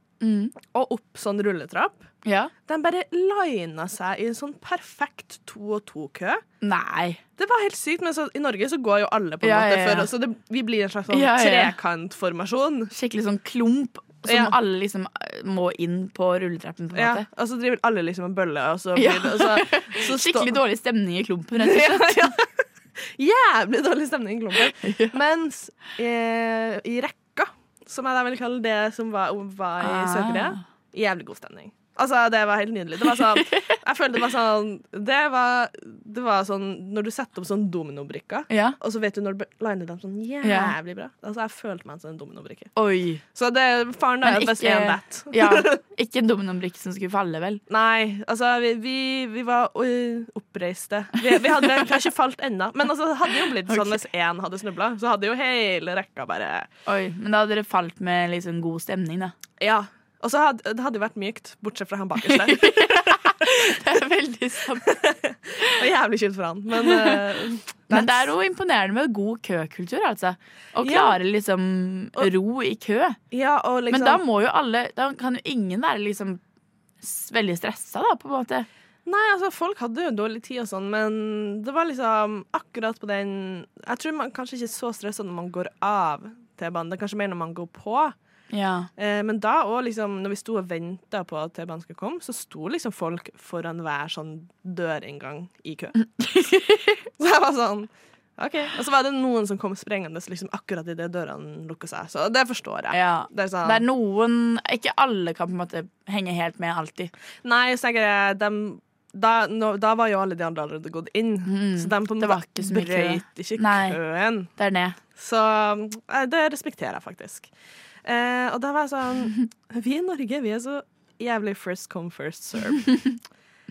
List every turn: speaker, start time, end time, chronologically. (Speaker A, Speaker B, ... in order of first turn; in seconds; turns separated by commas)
Speaker A: 0.2-0.5, Speaker B: 0.6-2.1, Speaker A: 2.2-2.5, Speaker B: 2.7-6.4, Speaker A: 6.6-7.2, Speaker B: 7.4-12.9, Speaker A: 9.4-10.1, Speaker A: 11.1-11.8, Speaker A: 12.9-17.3, Speaker B: 14.3-14.5, Speaker B: 16.9-20.6, Speaker A: 18.9-22.4, Speaker B: 21.6-42.7, Speaker A: 24.8-25.2, Speaker A: 29.8-30.6, Speaker A: 33.4-33.8, Speaker A: 38.5-38.8, Speaker A: 40.4-40.8, Speaker A: 42.8-43.2, Speaker B: 43.3-45.8, Speaker A: 44.2-47.6, Speaker B: 47.7-56.7, Speaker A: 53.6-54.0, Speaker A: 56.9-59.4, Speaker B: 59.6-63.5, Speaker A: 62.2-65.0, Speaker B: 64.8-68.3, Speaker A: 66.8-67.2, Speaker A: 67.9-73.2, Speaker B: 70.8-71.2, Speaker B: 73.3-74.2, Speaker A: 73.9-76.4, Speaker A: 77.0-78.7, Speaker B: 79.1-88.2, Speaker A: 88.5-88.9, Speaker B: 89.0-96.0, Speaker A: 96.2-97.1, Speaker B: 97.2-103.8, Speaker A: 102.9-107.1, Speaker B: 107.4-114.5, Speaker A: 111.5-114.0, Speaker A: 114.5-115.0, Speaker B: 115.2-117.5, Speaker B: 118.0-122.9